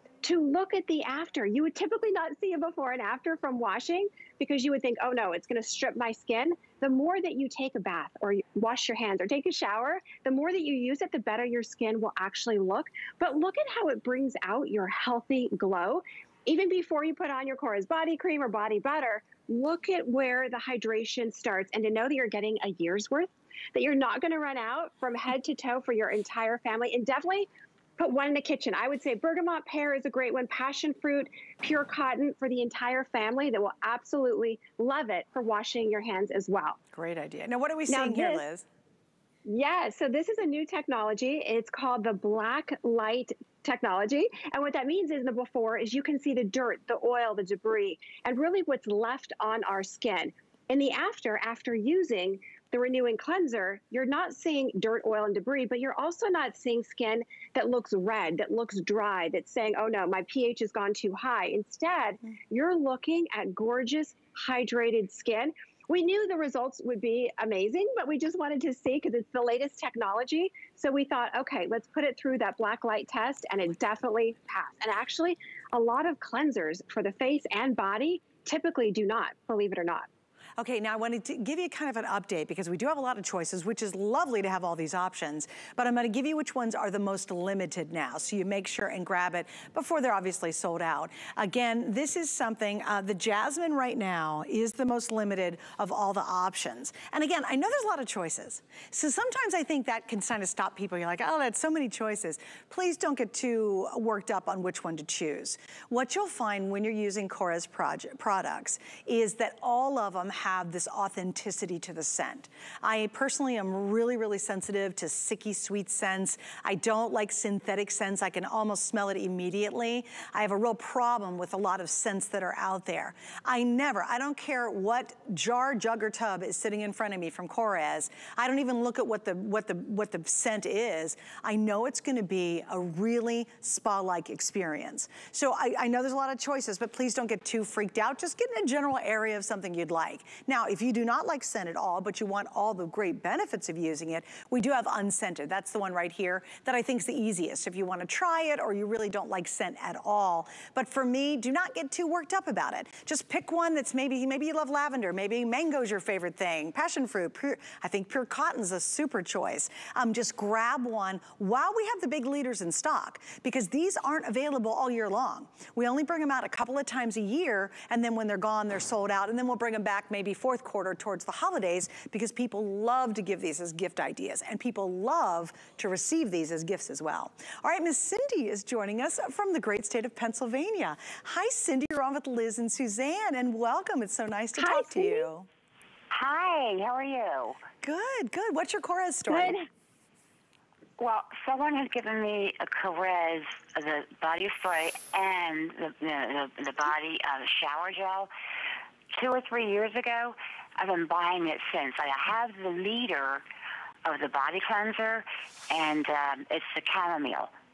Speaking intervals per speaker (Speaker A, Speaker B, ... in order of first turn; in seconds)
Speaker A: 0.2-36.8, 37.9-38.5, 39.5-80.1, 184.6-185.3, 189.3-189.7
Speaker B: 36.9-38.6, 80.6-185.5, 187.8-189.6
Speaker C: 186.1-187.6, 191.0-198.3, 199.1-203.4, 204.0-207.5